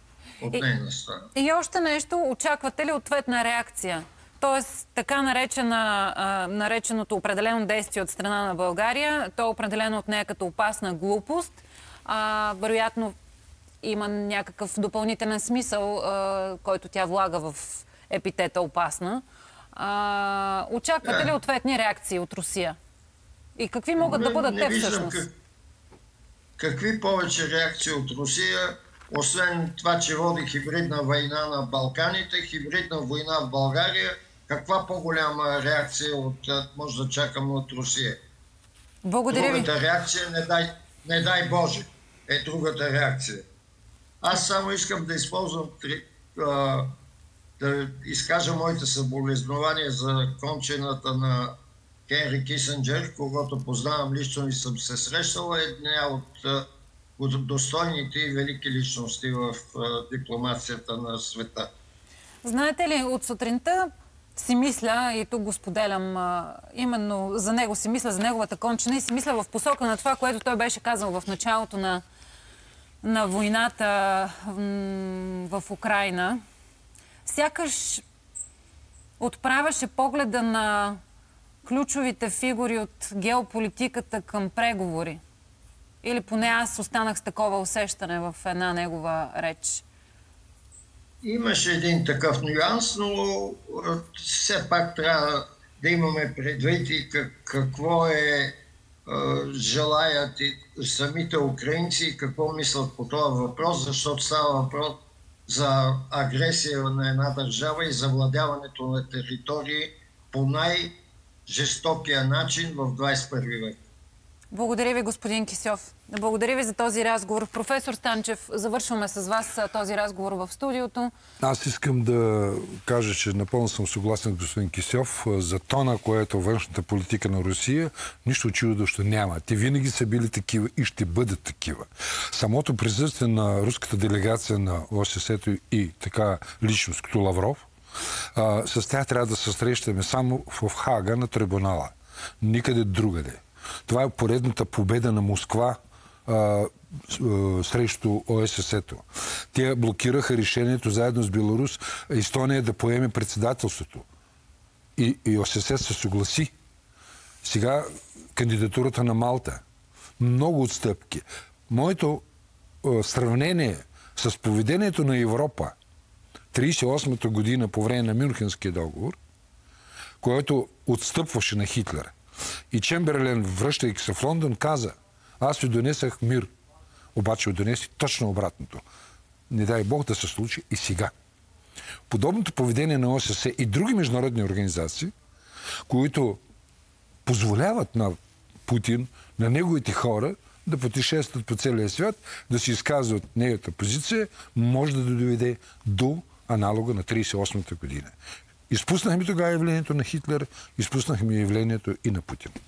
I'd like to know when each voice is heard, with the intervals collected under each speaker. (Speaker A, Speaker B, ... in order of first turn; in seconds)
Speaker A: 0.4-1.3, 21.0-21.3, 24.0-25.3, 26.6-38.2, 39.3-43.4, 44.2-46.9, 47.6-51.5, 52.1-56.7, 57.2-61.7, 91.2-113.8
Speaker B: 1.4-13.1, 13.8-22.8, 23.6-25.2, 39.0-39.7, 62.4-72.0, 73.0-76.4, 77.2-78.0, 79.2-81.0, 81.7-85.2, 86.0-89.8, 114.5-121.1
Speaker C: 121.4-137.7, 138.3-154.1, 155.0-156.5, 157.4-159.6, 160.2-162.2, 162.8-165.8, 166.5-169.2, 170.2-172.1, 172.7-176.5, 177.2-178.8, 179.5-181.1, 182.1-185.1, 185.9-186.4, 187.2-188.2, 188.7-198.1, 198.7-202.6